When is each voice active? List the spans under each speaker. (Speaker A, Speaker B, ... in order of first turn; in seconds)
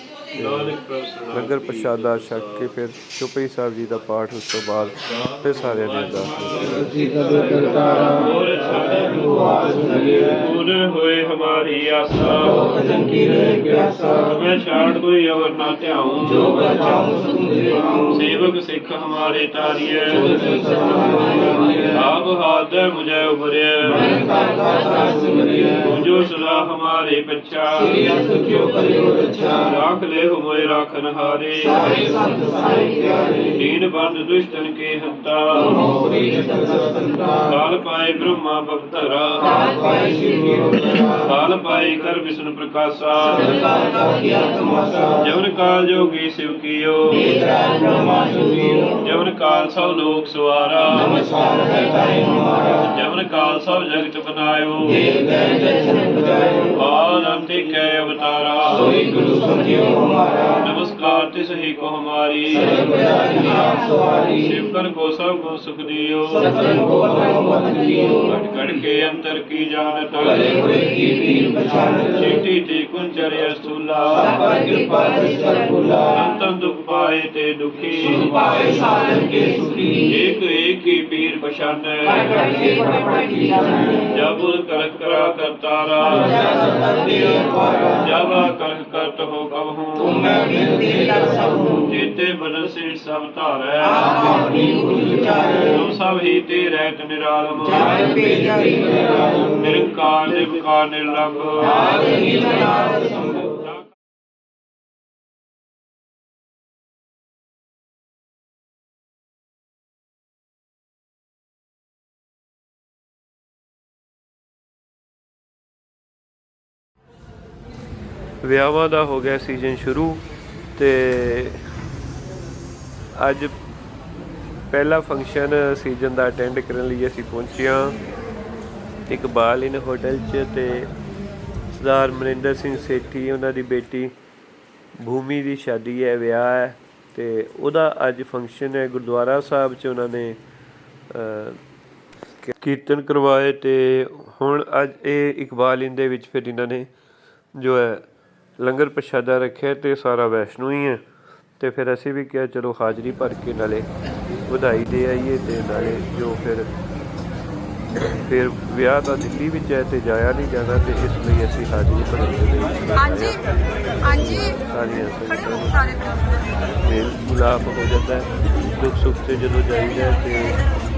Speaker A: 0.3-0.8, 1.3-6.9, 8.1-8.8, 33.8-34.2, 80.5-81.9, 85.1-85.6, 118.4-120.2, 120.8-121.6, 123.2-123.5, 124.7-128.0, 129.1-130.9, 131.7-134.1, 135.0-140.4, 141.1-141.6, 142.4-146.9, 147.6-148.0, 148.6-151.0, 151.6-153.9, 154.5-156.7, 158.1-163.4, 164.0-166.1, 166.8-170.6
Speaker B: 0.4-2.7, 5.1-13.0, 14.3-17.2, 18.0-32.7, 33.4-36.4, 37.3-43.9, 45.1-55.9, 56.7-83.1, 84.0-91.1, 91.7-103.7
Speaker C: 6.9-8.1, 8.8-10.3, 12.5-14.3, 16.4-18.1, 20.3-21.9, 23.9-25.9, 27.9-29.6, 31.8-33.5, 35.7-37.5, 39.5-41.2, 43.4-45.2, 47.3-49.0, 51.1-52.8, 55.1-56.7, 58.9-60.6, 62.6-64.4, 66.4-68.3, 70.4-72.3, 74.2-76.2, 78.2-80.1, 82.2-84.1, 86.1-88.0, 90.2-91.8, 93.9-95.8, 97.8-99.5, 101.8-103.5